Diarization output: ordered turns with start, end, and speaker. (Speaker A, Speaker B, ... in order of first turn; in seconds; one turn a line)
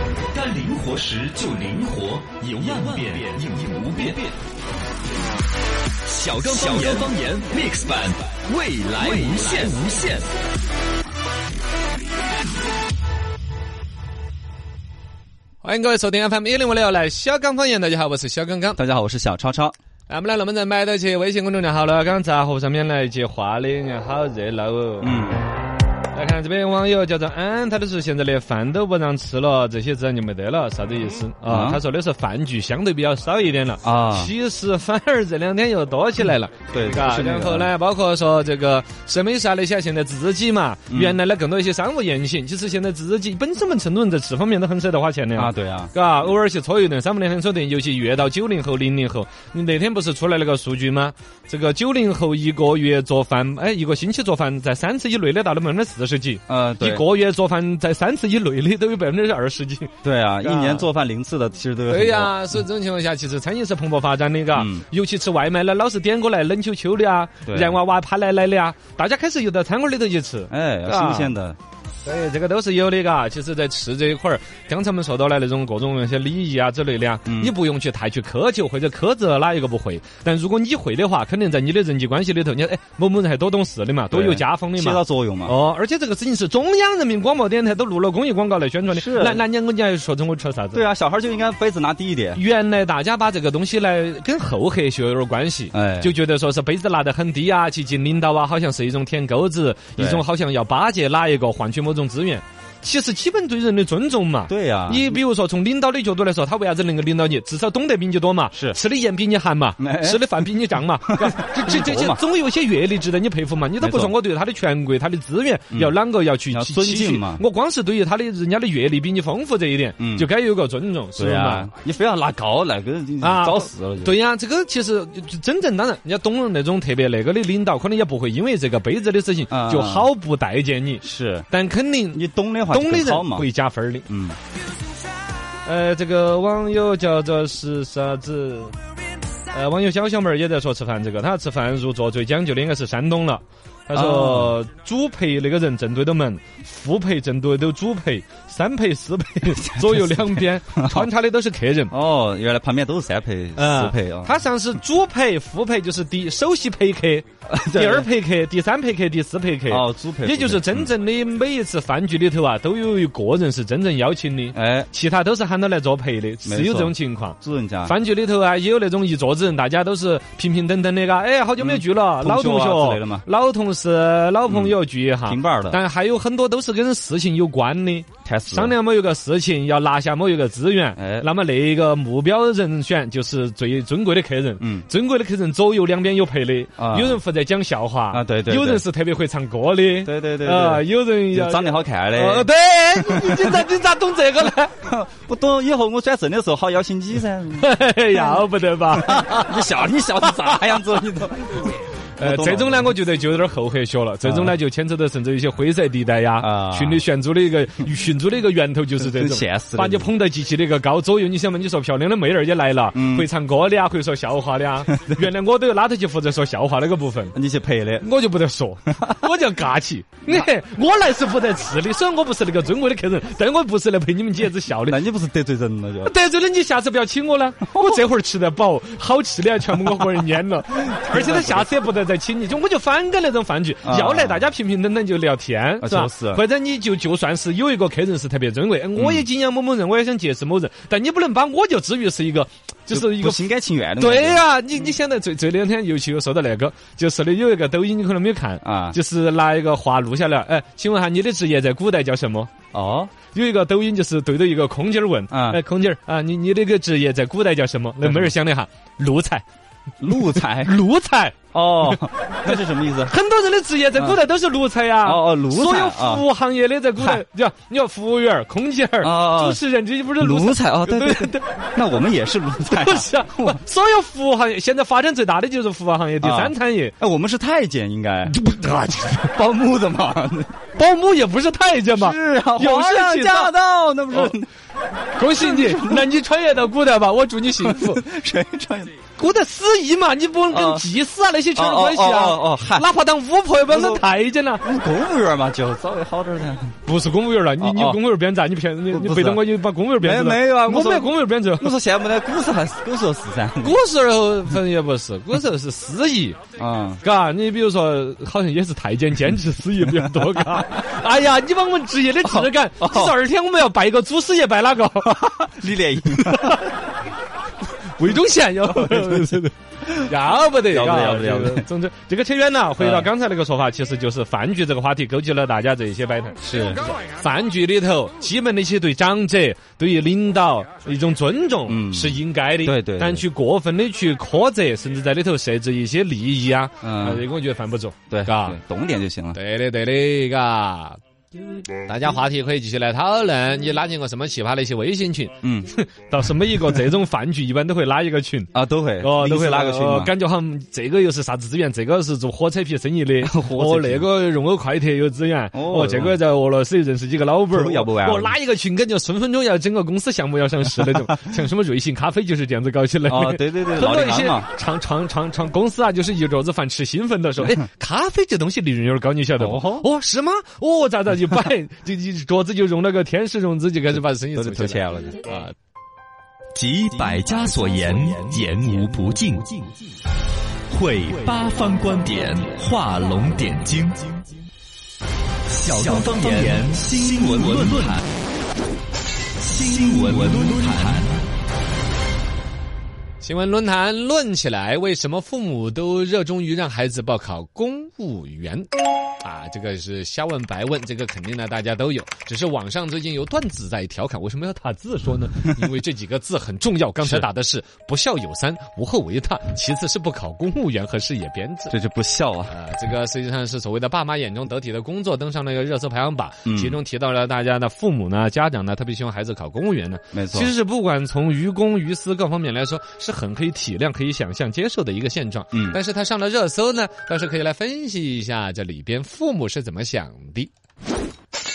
Speaker A: 0.3-4.3
Speaker A: 6.0-10.2
Speaker B: 15.6-18.8
Speaker C: 18.8-19.8
Speaker B: 20.1-25.3
Speaker C: 25.0-25.4
Speaker B: 26.1-60.9
Speaker C: 31.5-31.8
Speaker C: 33.8-34.3
Speaker C: 36.7-37.7
Speaker C: 40.9-41.2
Speaker C: 45.3-45.9
Speaker C: 56.5-57.0
Speaker C: 60.0-62.4
Speaker B: 61.9-71.3
Speaker C: 64.5-64.8
Speaker C: 67.5-67.8
Speaker C: 70.5-71.6
Speaker B: 72.0-90.8
Speaker C: 77.2-77.5
Speaker C: 84.1-85.6
Speaker C: 88.9-89.4
Speaker C: 90.7-92.4
Speaker B: 92.3-121.7
Speaker C: 95.7-96.1
Speaker C: 100.0-100.2
Speaker C: 104.5-105.2
Speaker C: 108.5-108.8
Speaker C: 109.8-110.5
Speaker C: 111.0-112.2
Speaker C: 113.8-114.2
Speaker C: 115.7-116.0
Speaker C: 116.5-117.4
Speaker C: 120.0-120.3
Speaker C: 121.2-124.2
Speaker B: 123.2-134.1
Speaker C: 129.5-130.1
Speaker C: 131.0-131.5
Speaker C: 132.1-133.5
Speaker C: 134.1-134.4
Speaker B: 135.6-138.8
Speaker B: 139.5-151.9
Speaker C: 143.9-144.6
Speaker C: 149.5-151.1
Speaker C: 151.9-154.4
Speaker B: 153.6-194.7
Speaker C: 157.5-158.1
Speaker C: 159.7-160.9
Speaker C: 164.5-164.9
Speaker C: 166.4-168.0
Speaker C: 171.6-173.2
Speaker C: 174.5-175.8
Speaker C: 178.2-178.8
Speaker C: 180.9-181.3
Speaker C: 184.6-184.9
Speaker C: 186.8-187.2
Speaker C: 188.1-188.8
Speaker C: 190.0-193.6
Speaker C: 194.8-202.9
Speaker B: 197.6-201.0
Speaker B: 202.2-217.3
Speaker C: 204.2-204.6
Speaker C: 206.4-207.0
Speaker C: 209.0-210.1
Speaker C: 212.9-213.3
Speaker C: 214.9-215.2
Speaker C: 217.3-218.1
Speaker B: 218.0-225.0
Speaker C: 224.8-226.1
Speaker B: 226.0-243.4
Speaker C: 227.7-228.0
Speaker C: 230.9-231.7
Speaker C: 233.8-234.5
Speaker C: 235.8-236.4
Speaker C: 238.9-239.3
Speaker C: 242.9-244.9
Speaker B: 244.0-252.5
Speaker C: 248.6-249.0
Speaker C: 252.7-253.1
Speaker B: 253.3-259.4
Speaker C: 255.3-255.6
Speaker C: 258.0-258.3
Speaker C: 260.0-260.8
Speaker B: 260.1-271.5
Speaker C: 261.5-263.1
Speaker C: 265.0-266.2
Speaker C: 267.0-267.2
Speaker C: 269.0-269.6
Speaker C: 270.2-273.6
Speaker B: 272.7-276.9
Speaker C: 276.2-278.4
Speaker B: 278.2-279.4
Speaker C: 279.2-280.5
Speaker B: 280.7-283.6
Speaker C: 281.8-284.5
Speaker B: 284.1-284.4
Speaker B: 285.2-288.0
Speaker C: 285.3-286.1
Speaker C: 287.6-288.9
Speaker B: 289.1-294.6
Speaker C: 290.5-290.9
Speaker C: 291.5-292.9
Speaker C: 293.6-294.1
Speaker C: 294.6-296.8
Speaker B: 296.8-301.7
Speaker C: 297.6-298.0
Speaker C: 298.9-303.8
Speaker B: 303.6-306.4
Speaker C: 306.6-307.0
Speaker B: 307.0-315.2
Speaker C: 310.0-310.4
Speaker C: 312.2-313.2
Speaker C: 315.0-316.7
Speaker B: 316.1-316.7
Speaker B: 317.9-326.4
Speaker C: 318.6-321.6
Speaker C: 322.8-323.1
Speaker C: 326.4-326.9
Speaker B: 327.0-338.6
Speaker C: 331.7-333.2
Speaker C: 336.8-337.2
Speaker C: 338.1-339.4
Speaker B: 339.3-341.0
Speaker B: 341.8-375.5
Speaker C: 345.4-345.7
Speaker C: 348.5-350.1
Speaker C: 353.2-354.1
Speaker C: 355.5-356.2
Speaker C: 357.5-358.4
Speaker C: 363.1-364.5
Speaker C: 369.4-369.9
Speaker C: 373.9-375.2
Speaker A: 376.5-379.5
Speaker A: 380.7-384.2
Speaker A: 385.5-388.0
Speaker A: 389.4-391.2
Speaker B: 393.2-398.7
Speaker B: 399.2-411.7
Speaker C: 407.0-407.3
Speaker C: 411.7-412.5
Speaker B: 412.5-430.5
Speaker C: 416.4-416.8
Speaker C: 420.1-420.5
Speaker C: 425.5-425.8